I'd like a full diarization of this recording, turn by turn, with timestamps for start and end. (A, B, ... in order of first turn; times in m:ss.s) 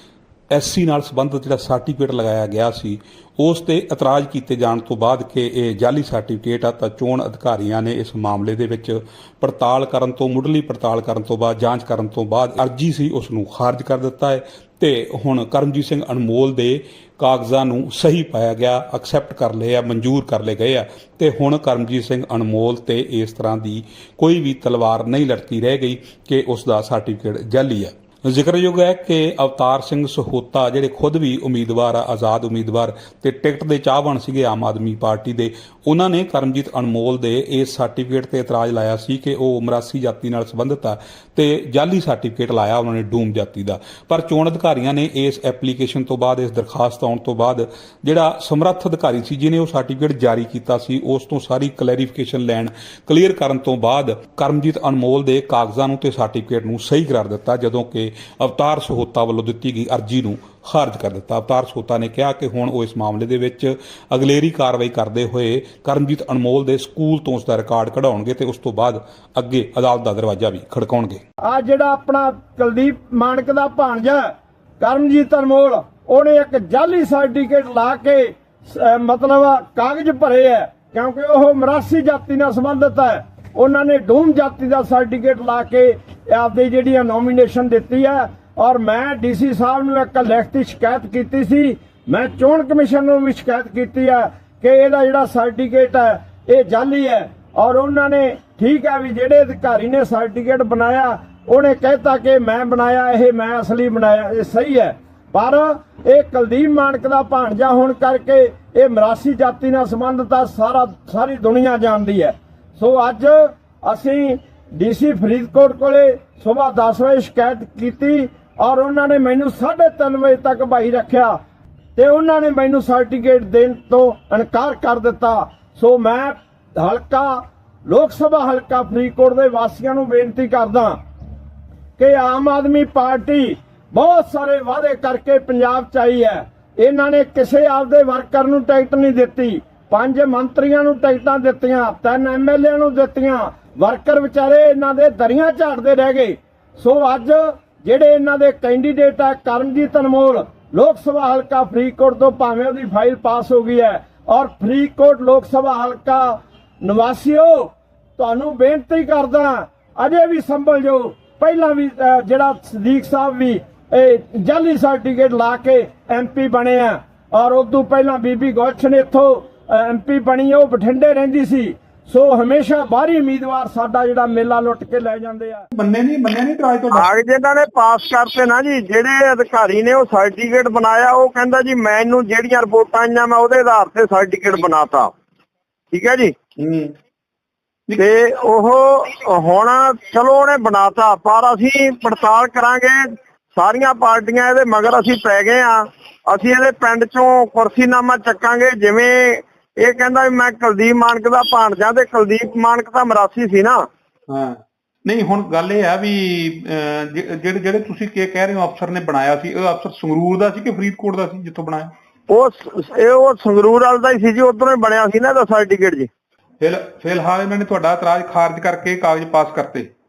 0:00.5-1:11.2 A
1:11.4-1:14.3 B
1:14.8-2:01.4 B
2:02.0-2:10.9 B
2:12.0-2:55.6 B
2:55.8-2:57.0 C
2:56.9-3:05.1 D
3:05.9-3:06.3 D
3:06.6-3:06.9 C
3:08.0-3:13.0 D
3:13.5-3:23.8 D
3:24.3-3:31.9 C
3:32.3-3:36.1 D
3:36.6-3:39.9 C